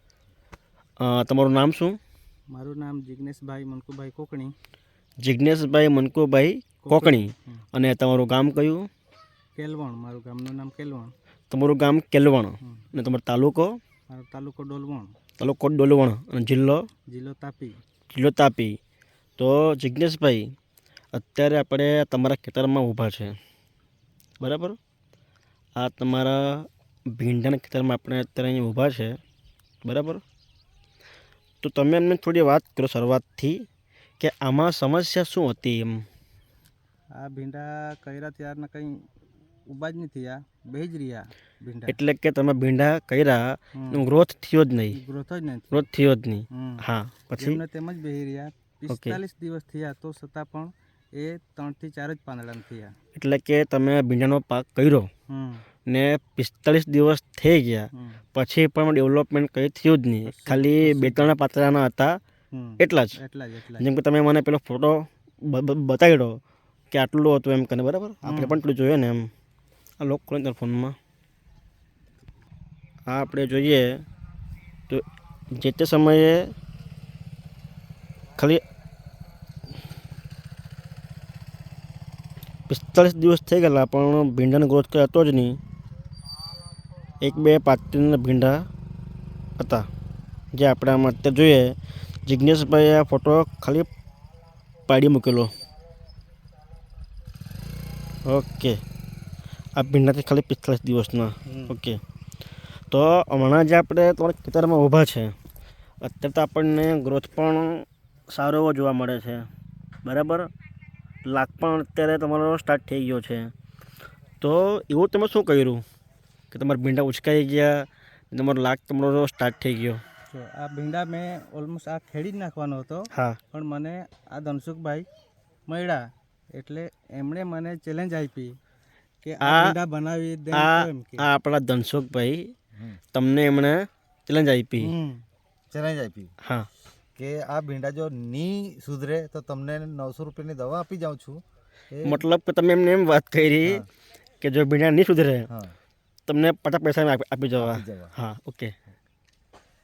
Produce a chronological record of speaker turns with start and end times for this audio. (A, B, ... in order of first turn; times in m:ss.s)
0:01.0-0:02.0 A
0:02.5-0:04.5 B
0:05.2-0:08.9 A
0:06.8-0:07.6 B
0:09.6-0:11.1 B
0:11.5-0:13.8 A
0:14.1-0:15.1 B
0:15.4-0:16.8 A
0:17.1-0:17.8 B
0:18.1-0:18.8 A
0:19.4-0:20.5 A
0:21.1-0:23.4 A
0:24.4-0:24.8 A
0:25.8-0:29.2 A
0:29.8-0:30.2 A
0:31.6-0:33.6 A
0:34.2-0:36.0 A
0:37.2-0:39.0 B
0:39.7-0:42.0 B
0:41.9-0:45.0 A
0:43.8-0:44.1 B
0:44.9-0:45.9 B
0:45.7-0:47.6 A
0:46.5-0:46.8 B
0:47.4-0:52.9 B
0:48.9-0:49.2 A
0:53.1-0:55.1 A
0:55.3-0:55.6 B
0:55.8-1:02.2 A
1:00.2-1:01.3 B
1:02.5-1:03.9 B
1:02.8-1:03.2 A
1:03.8-1:09.3 A
1:08.2-1:08.6 B
1:10.0-1:11.0 A
1:13.1-1:14.0 A
1:14.9-1:16.5 A
1:18.4-1:18.6 A
1:22.7-1:25.6 A
1:27.2-1:28.6 A
1:29.6-1:29.9 A
1:30.5-1:33.9 A
1:34.9-1:35.5 A
1:38.2-1:38.8 A
1:39.8-1:42.0 A
1:41.5-1:41.7 B
1:42.9-1:45.3 A
1:46.0-1:49.5 A
1:50.0-1:50.5 A
1:51.2-1:53.5 A
1:54.4-1:55.8 A
1:56.5-2:00.0 A
2:00.3-2:05.0 B
2:03.1-2:03.4 A
2:05.7-2:08.6 B
2:09.2-2:11.3 B
2:09.4-2:09.8 A
2:10.5-2:12.5 A
2:13.1-2:13.8 A
2:14.3-2:14.9 A
2:14.8-2:15.2 B
2:15.7-2:16.3 C
2:16.4-2:16.7 A
2:17.2-2:21.4 C
2:21.9-2:22.2 C
2:22.0-2:23.8 A
2:24.4-2:25.5 A
2:26.2-2:28.7 A
2:27.6-2:28.1 C